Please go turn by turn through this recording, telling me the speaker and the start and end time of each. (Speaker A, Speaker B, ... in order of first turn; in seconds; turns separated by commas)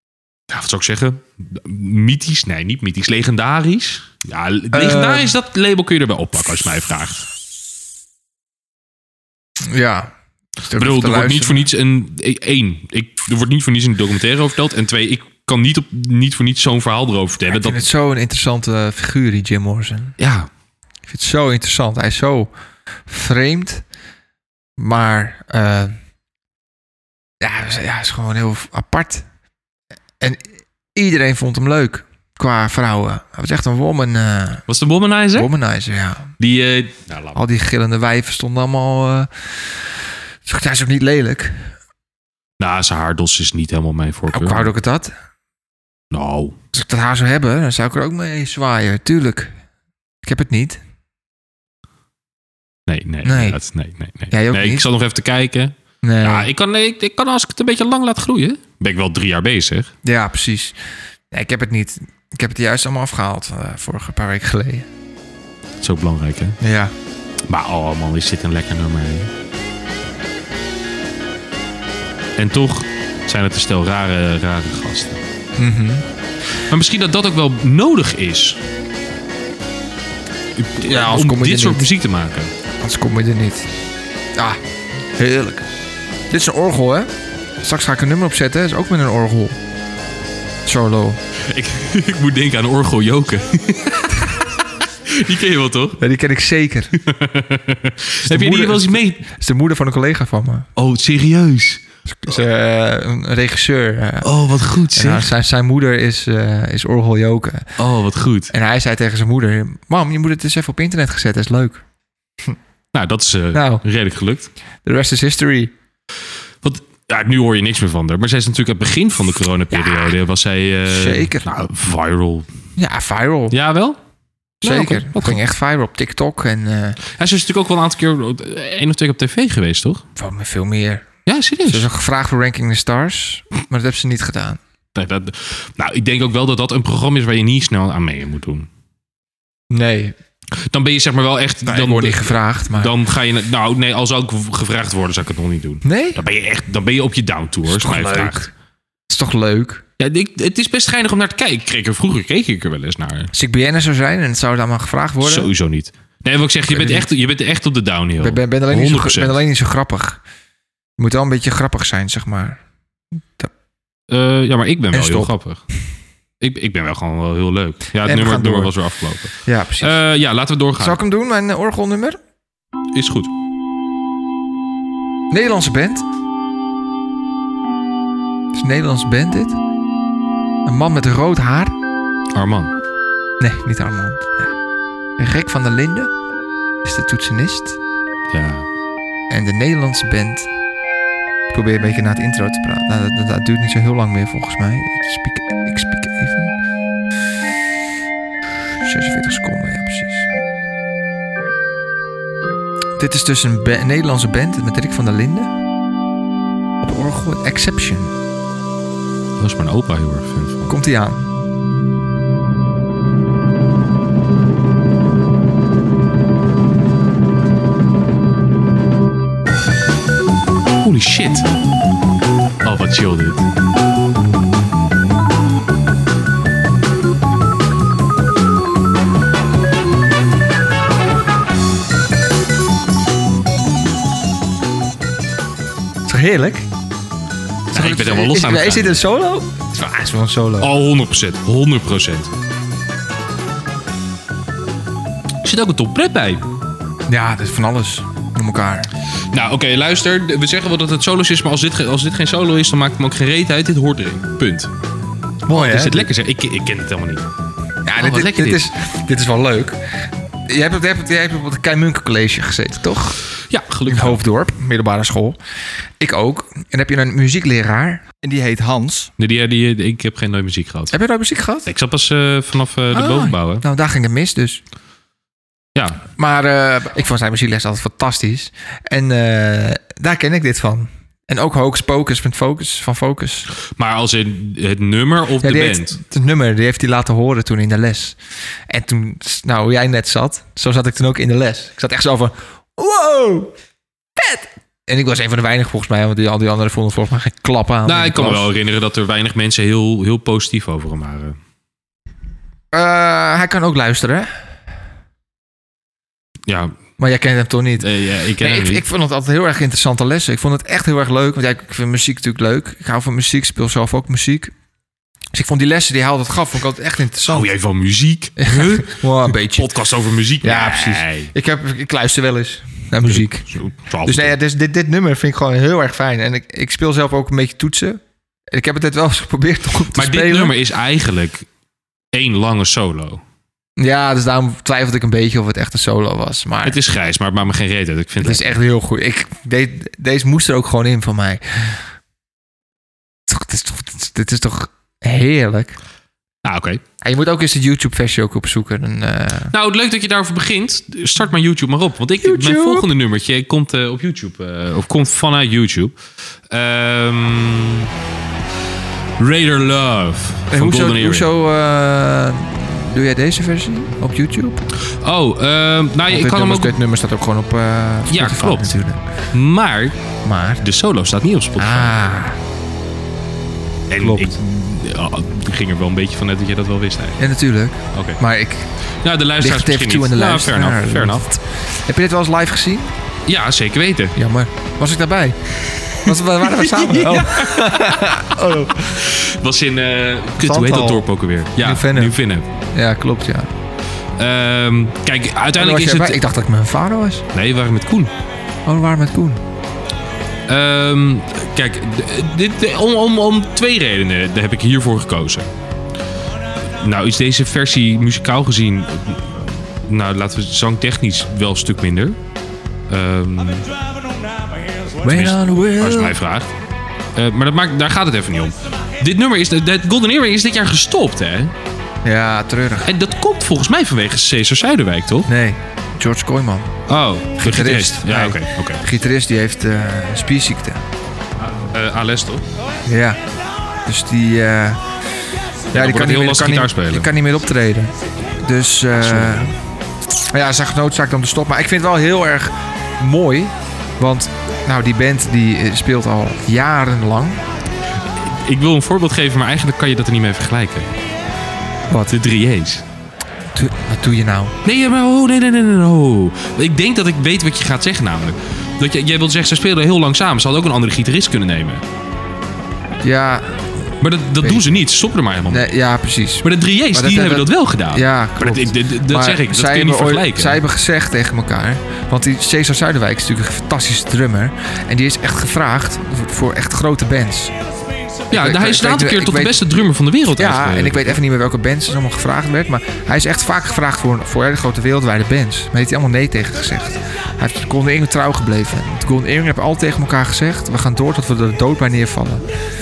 Speaker A: 0.5-7.2, Speaker B: 4.7-5.4, Speaker B: 9.6-10.1, Speaker B: 10.6-11.7, Speaker A: 10.7-17.8, Speaker B: 17.5-20.2, Speaker A: 20.2-20.5, Speaker B: 21.1-22.5, Speaker B: 23.1-23.8, Speaker B: 24.8-25.9, Speaker B: 27.4-29.2, Speaker B: 30.9-34.6, Speaker A: 34.7-35.5, Speaker B: 35.3-36.3, Speaker A: 36.4-37.4, Speaker B: 37.3-39.9, Speaker B: 40.4-41.7, Speaker A: 42.6-44.7, Speaker B: 44.3-45.1, Speaker A: 46.1-46.6, Speaker B: 46.7-49.5, Speaker B: 50.2-50.8, Speaker A: 52.9-59.9, Speaker B: 53.2-53.6, Speaker B: 54.3-54.8, Speaker B: 56.0-56.5, Speaker B: 60.0-60.8, Speaker B: 61.3-64.9, Speaker A: 65.8-66.6, Speaker B: 66.6-66.9, Speaker A: 67.5-69.3, Speaker A: 72.4-75.2, Speaker B: 75.6-76.0, Speaker A: 76.7-78.6, Speaker A: 80.5-82.5, Speaker B: 80.8-81.8, Speaker B: 82.8-83.7, Speaker B: 85.2-85.7, Speaker B: 86.3-89.6, Speaker B: 90.6-91.2, Speaker A: 91.5-96.0, Speaker B: 96.0-96.9, Speaker A: 97.0-99.2, Speaker B: 98.2-100.7, Speaker A: 100.8-101.8, Speaker B: 102.1-104.3, Speaker A: 104.2-105.3, Speaker B: 104.9-107.7, Speaker A: 107.8-108.5, Speaker B: 108.5-111.8, Speaker A: 112.9-114.5, Speaker B: 113.5-113.8, Speaker B: 114.8-115.7, Speaker A: 116.6-122.5, Speaker B: 119.7-120.2, Speaker B: 120.9-121.5, Speaker B: 122.8-123.5, Speaker A: 123.5-124.0, Speaker A: 124.6-125.4, Speaker B: 124.6-127.0, Speaker A: 127.1-130.0, Speaker B: 130.2-131.1, Speaker A: 131.2-131.9, Speaker B: 131.7-134.6, Speaker A: 134.9-138.7, Speaker B: 139.7-140.2, Speaker A: 140.5-148.5, Speaker B: 141.7-142.9, Speaker B: 145.8-146.2, Speaker B: 147.7-148.5, Speaker B: 149.1-149.8, Speaker A: 150.0-153.3, Speaker B: 153.3-155.5, Speaker A: 155.2-159.4, Speaker B: 156.7-157.1, Speaker B: 158.2-160.2, Speaker B: 161.0-162.6, Speaker A: 164.1-165.6, Speaker B: 164.9-165.3, Speaker A: 166.4-171.0, Speaker B: 168.0-168.7, Speaker B: 169.4-170.0, Speaker B: 170.8-172.2, Speaker A: 172.9-173.3, Speaker B: 175.3-176.0, Speaker B: 178.5-179.6, Speaker B: 180.6-181.8, Speaker A: 182.3-182.7, Speaker B: 183.4-184.5, Speaker B: 185.2-186.1, Speaker B: 186.8-187.8, Speaker A: 188.3-188.7, Speaker B: 189.3-190.5, Speaker B: 191.5-196.5, Speaker B: 198.8-200.3, Speaker B: 203.0-205.5, Speaker B: 206.8-208.1, Speaker A: 209.4-210.7, Speaker B: 210.7-211.2, Speaker A: 220.8-221.5, Speaker A: 222.6-223.4, Speaker B: 236.0-236.7, Speaker A: 237.7-239.0, Speaker B: 237.7-240.7, Speaker A: 240.6-242.3, Speaker A: 245.4-246.4, Speaker B: 247.1-248.9, Speaker A: 249.3-254.7, Speaker B: 255.5-256.1, Speaker A: 255.5-257.3, Speaker B: 257.8-259.8, Speaker A: 257.9-258.6, Speaker B: 260.4-263.2, Speaker A: 263.5-264.2, Speaker B: 263.9-265.4, Speaker B: 266.0-269.1, Speaker A: 269.2-270.9, Speaker B: 270.9-271.7, Speaker A: 271.6-273.6, Speaker B: 272.9-274.6, Speaker A: 275.8-276.0, Speaker B: 276.1-283.5, Speaker A: 283.8-286.0, Speaker B: 285.4-293.5, Speaker B: 294.1-298.5, Speaker A: 297.8-301.4, Speaker B: 302.7-304.3, Speaker A: 306.5-306.8, Speaker B: 307.0-314.5, Speaker A: 307.8-308.8, Speaker B: 315.3-317.5, Speaker A: 317.2-321.3, Speaker B: 318.4-319.7, Speaker B: 320.4-330.6, Speaker A: 323.1-324.3, Speaker A: 329.9-331.5, Speaker A: 332.1-333.2, Speaker B: 333.8-336.8, Speaker A: 336.6-338.5, Speaker B: 338.2-341.8, Speaker B: 343.3-345.8, Speaker A: 346.4-346.8, Speaker B: 347.0-349.5, Speaker A: 349.5-355.9, Speaker B: 352.2-352.9, Speaker A: 356.5-357.9, Speaker A: 359.2-361.3, Speaker B: 360.5-364.6, Speaker A: 364.8-366.8, Speaker B: 366.1-369.0, Speaker A: 368.1-368.8, Speaker A: 369.3-370.0, Speaker B: 370.2-370.6, Speaker A: 370.6-371.9, Speaker B: 371.6-372.4, Speaker A: 373.9-377.2, Speaker B: 373.9-374.4, Speaker B: 377.2-378.7, Speaker A: 377.9-378.2, Speaker A: 379.0-381.2, Speaker B: 379.4-382.9, Speaker A: 383.3-384.2, Speaker B: 384.1-389.1, Speaker A: 385.6-388.2, Speaker A: 388.8-392.5, Speaker B: 390.4-392.2, Speaker B: 392.7-393.5, Speaker A: 394.2-396.2, Speaker B: 395.5-397.2, Speaker A: 397.3-398.1, Speaker B: 398.6-399.4, Speaker A: 400.5-405.5, Speaker A: 406.7-412.2, Speaker A: 412.9-413.7, Speaker B: 415.0-416.2, Speaker A: 415.0-416.5, Speaker A: 417.1-421.5, Speaker B: 422.0-422.9, Speaker A: 422.8-425.3, Speaker B: 425.3-426.7, Speaker A: 426.9-428.8, Speaker B: 427.4-430.8, Speaker A: 431.6-432.4, Speaker B: 432.9-433.2, Speaker B: 433.8-434.8, Speaker B: 435.7-439.5, Speaker A: 435.7-437.1, Speaker A: 439.0-439.5, Speaker B: 440.3-447.4, Speaker A: 448.1-450.9, Speaker B: 451.9-452.1, Speaker A: 452.0-452.8, Speaker B: 453.5-454.6, Speaker A: 454.6-461.8, Speaker B: 463.0-463.9, Speaker A: 464.0-465.7, Speaker B: 464.4-464.7, Speaker B: 465.5-477.5, Speaker A: 466.4-470.6, Speaker B: 478.3-479.6, Speaker A: 478.3-481.1, Speaker B: 480.3-492.4